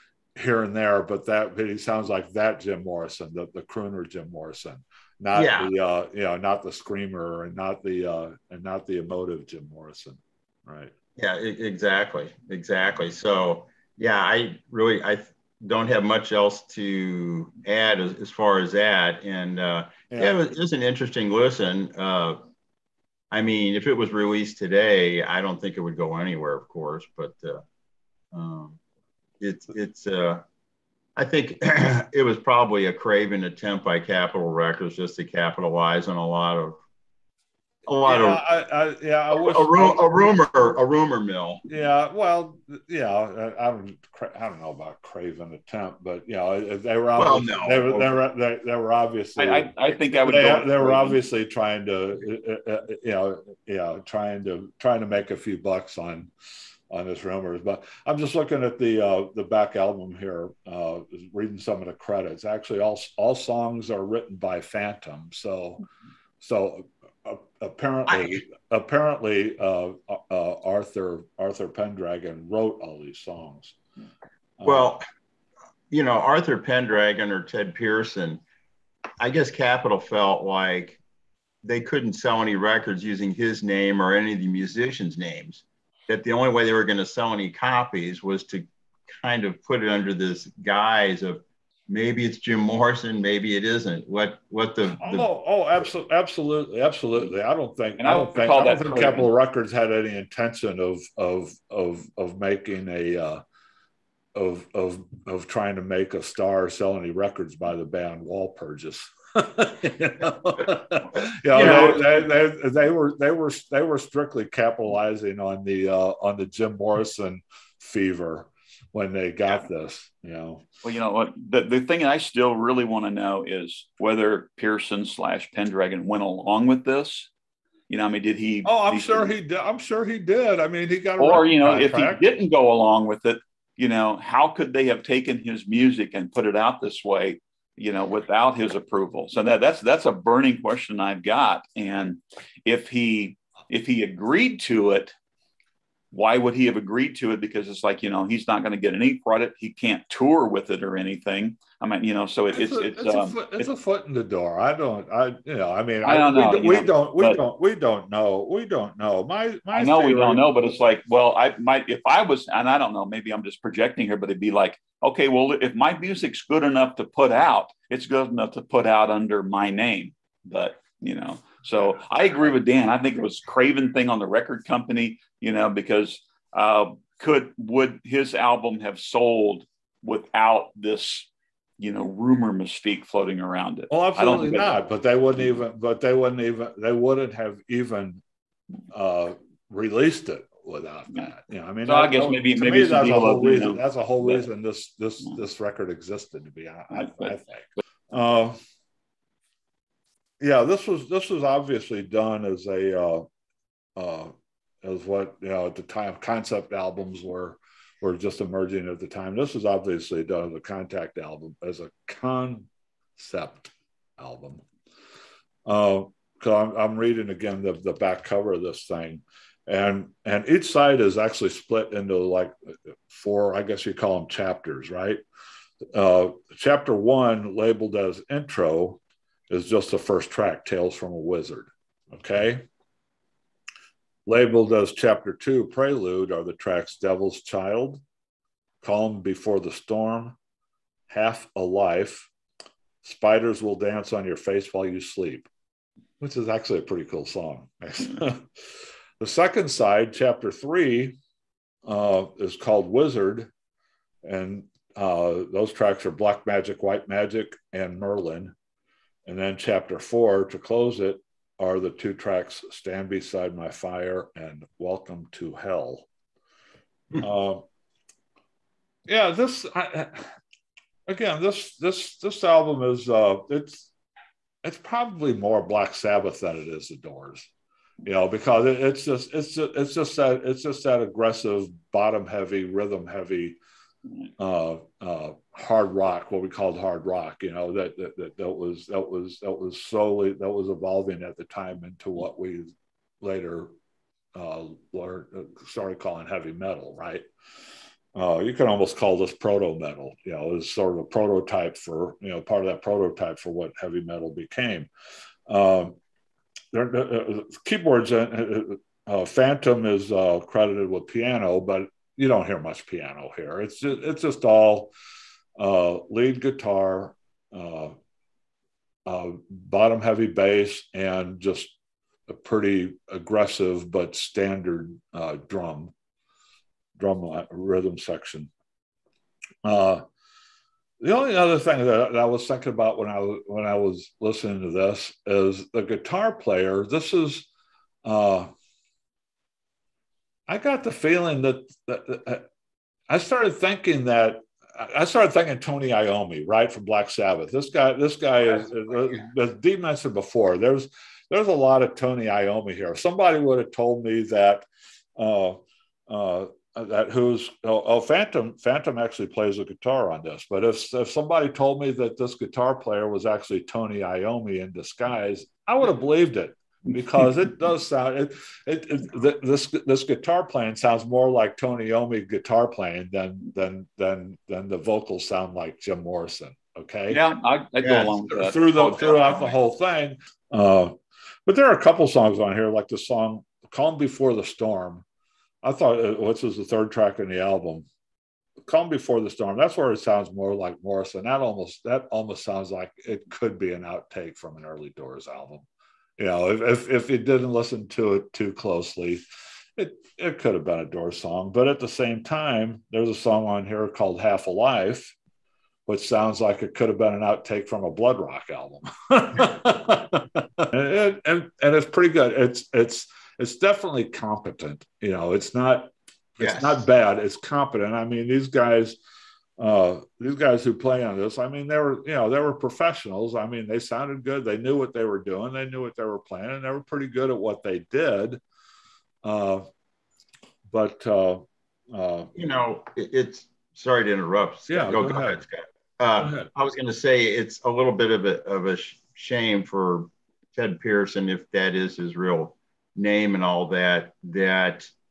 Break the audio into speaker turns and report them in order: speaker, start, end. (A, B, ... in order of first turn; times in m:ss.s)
0:00.4-0:10.9 A
0:05.3-0:05.7 B
0:11.2-0:22.4 B
0:23.3-0:27.6 B
0:28.3-0:28.8 B
0:29.4-0:30.4 B
0:31.2-0:36.8 B
0:37.8-0:38.4 B
0:38.0-0:40.3 A
0:39.3-0:41.6 B
0:41.7-0:56.3 A
0:47.2-0:48.1 B
0:49.4-0:51.2 C
0:56.9-1:05.8 A
1:06.4-1:13.8 A
1:08.1-1:08.4 B
1:14.6-1:14.9 A
1:14.6-1:15.0 B
1:15.9-1:18.4 B
1:19.2-1:21.0 B
1:21.6-1:35.3 B
1:35.0-1:43.4 A
1:38.0-1:39.3 C
1:44.3-2:00.6 A
1:51.5-1:52.2 C
1:51.5-1:52.0 B
2:00.8-2:07.3 C
2:07.9-2:09.3 C
2:08.6-2:12.2 A
2:11.2-2:25.1 C
2:26.1-2:33.7 C
2:32.5-2:40.4 A
2:36.0-2:37.4 C
2:39.7-3:04.8 C
3:03.9-3:08.2 A
3:08.9-3:18.6 A
3:11.8-3:14.4 C
3:16.9-3:17.3 C
3:20.4-3:23.3 A
3:24.0-3:34.6 A
3:35.6-3:45.2 A
3:45.9-3:52.6 A
3:54.2-3:58.0 A
3:58.8-4:00.4 A
4:01.1-4:02.3 A
4:03.0-4:05.5 A
4:06.2-4:08.5 A
4:09.2-4:11.2 A
4:11.8-4:13.5 A
4:14.2-4:18.5 A
4:19.2-4:26.1 A
4:27.2-4:27.6 A
4:29.1-4:30.3 A
4:31.1-4:33.9 A
4:34.6-4:37.5 A
4:38.0-4:43.6 A
4:44.4-4:53.7 A
4:54.3-4:57.2 A
4:58.1-5:04.9 A
5:05.5-5:06.0 A
5:06.7-5:14.9 A
5:15.6-5:17.9 A
5:19.0-5:21.7 A
5:22.3-5:25.9 A
5:27.0-5:28.5 A
5:29.6-5:30.0 A
5:31.0-5:37.5 A
5:38.0-5:38.5 A
5:40.5-5:42.4 A
5:43.1-6:17.2 A
6:17.1-6:19.0 C
6:17.8-6:19.6 B
6:18.4-6:25.0 A
6:25.6-6:27.9 A
6:28.6-6:35.6 A
6:36.2-6:39.2 A
6:39.8-6:45.1 A
6:45.8-6:59.0 A
6:56.4-6:56.8 B
6:59.6-7:08.4 A
7:09.2-7:09.6 A
7:10.7-7:12.3 A
7:12.3-7:24.9 B
7:14.7-7:15.4 A
7:16.2-7:16.5 A